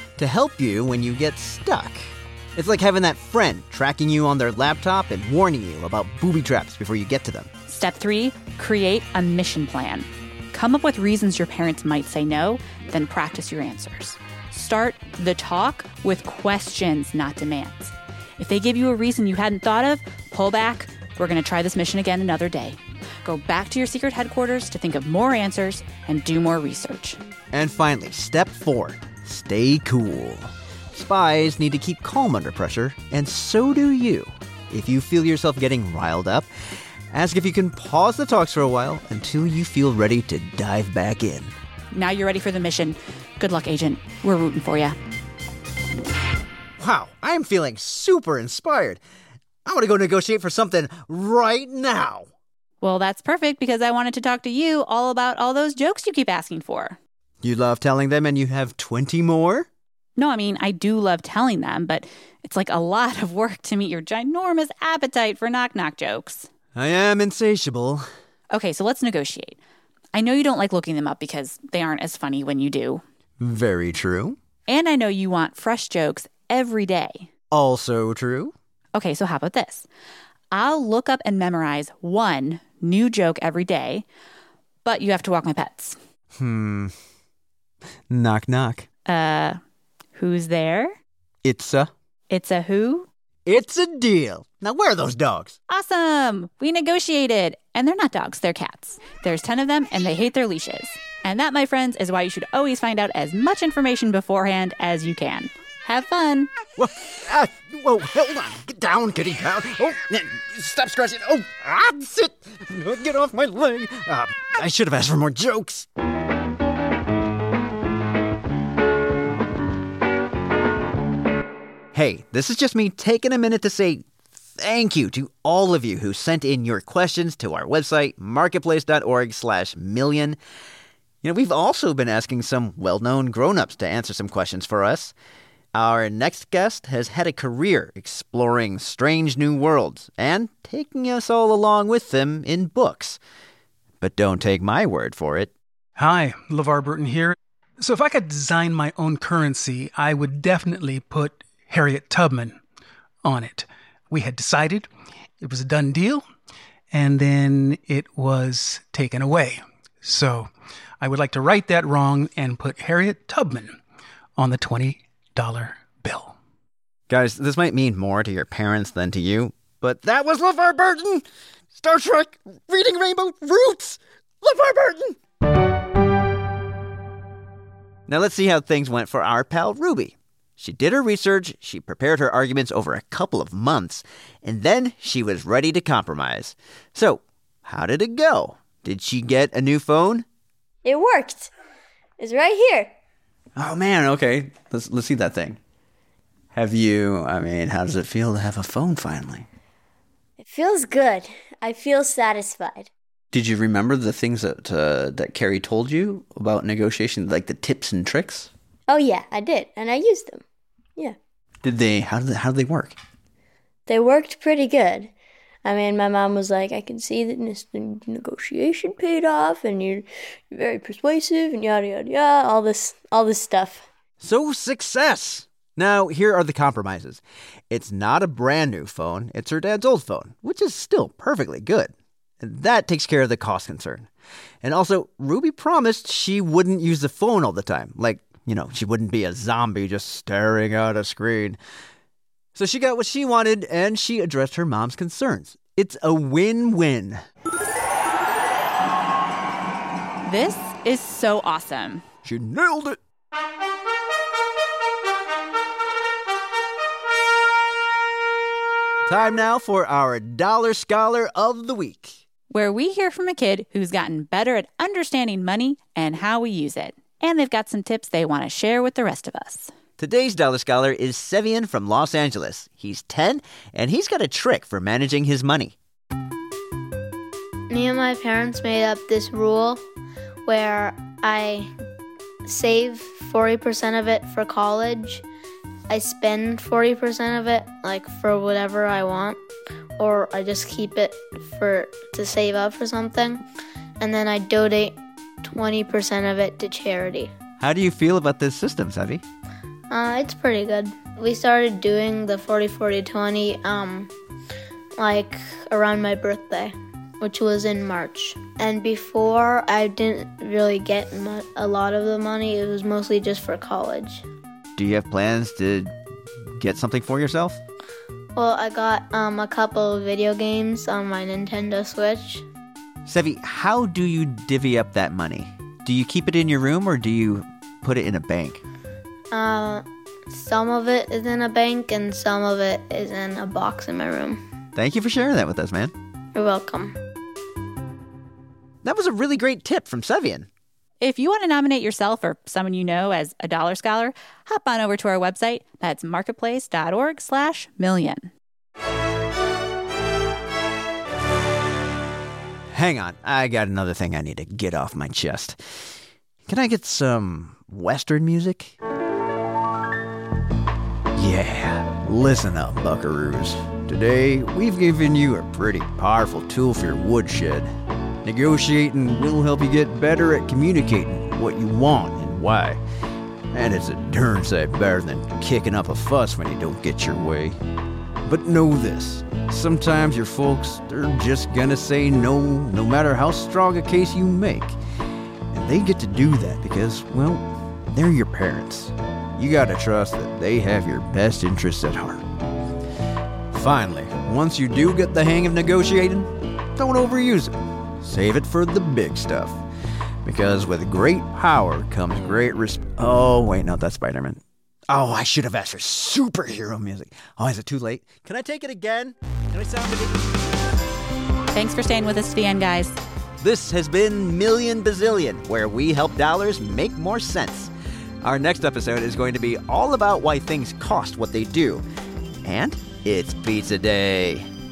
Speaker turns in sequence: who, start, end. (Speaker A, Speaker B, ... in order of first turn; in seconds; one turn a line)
Speaker A: 0.2-7.5
Speaker B: 7.7-27.2
Speaker A: 27.5-36.5
Speaker A: 37.1-41.5
Speaker B: 41.9-45.0
Speaker A: 46.8-49.0
Speaker A: 49.6-52.3
Speaker B: 52.8-57.0
Speaker A: 57.4-59.7
Speaker B: 60.2-66.5
Speaker A: 66.7-68.0
Speaker B: 68.5-69.6
Speaker B: 70.1-73.0
Speaker A: 73.4-74.4
Speaker B: 74.7-77.3
Speaker A: 77.5-78.5
Speaker B: 78.9-79.9
Speaker B: 80.5-84.0
Speaker B: 84.8-86.0
Speaker A: 86.3-86.9
Speaker A: 88.1-88.9
Speaker B: 89.0-89.6
Speaker B: 90.1-91.0
Speaker A: 91.4-91.9
Speaker B: 92.3-93.1
Speaker A: 93.5-95.5
Speaker B: 95.7-106.5
Speaker A: 106.8-115.8
Speaker A: 121.9-124.0
Speaker A: 124.6-130.4
Speaker A: 131.2-135.1
Speaker A: 135.7-143.2
Speaker A: 144.0-145.5
Speaker C: 146.0-152.6
Speaker C: 153.2-154.9
Speaker C: 155.4-156.2
Speaker C: 156.9-160.5
Speaker C: 161.0-163.8
Speaker C: 164.4-166.3
Speaker A: 167.1-171.2
Speaker A: 171.7-175.2
Speaker A: 178.1-190.2
Speaker D: 190.8-191.5
Speaker D: 192.2-192.9
Speaker A: 193.6-195.6
Speaker A: 196.5-199.5
Speaker D: 200.4-202.9
Speaker A: 203.3-208.5
Speaker D: 208.9-210.4
Speaker A: 211.6-213.0
Speaker D: 213.9-215.1
Speaker D: 215.6-223.8
Speaker A: 224.2-234.1
Speaker A: 234.6-241.6
Speaker A: 242.6-247.2
Speaker B: 250.2-252.0
Speaker A: 252.2-253.0
Speaker A: 259.1-262.2
Speaker B: 262.5-269.7
Speaker A: 270.0-275.7
Speaker E: 277.7-279.8
Speaker E: 280.4-281.7
Speaker E: 282.4-285.2
Speaker E: 285.9-289.4
Speaker E: 290.0-293.4
Speaker E: 294.0-297.3
Speaker A: 297.6-299.2
Speaker E: 299.9-304.1
Speaker E: 305.0-314.2
Speaker A: 314.8-315.9
Speaker A: 316.6-317.6
Speaker E: 318.4-322.4
Speaker A: 323.1-328.6
Speaker E: 329.3-334.4
Speaker A: 334.7-335.9
Speaker E: 336.3-336.9
Speaker A: 338.8-340.5
Speaker B: 341.0-348.3
Speaker A: 352.7-355.6
Speaker A: 356.4-358.8
Speaker A: 361.1-367.7
Speaker A: 368.2-372.8
Speaker A: 373.5-377.6
Speaker A: 378.2-384.8
Speaker A: 385.5-392.2
Speaker A: 393.5-399.6
Speaker A: 400.2-410.1
Speaker B: 411.5-413.0
Speaker A: 413.4-417.7
Speaker A: 418.2-421.8
Speaker A: 422.4-424.5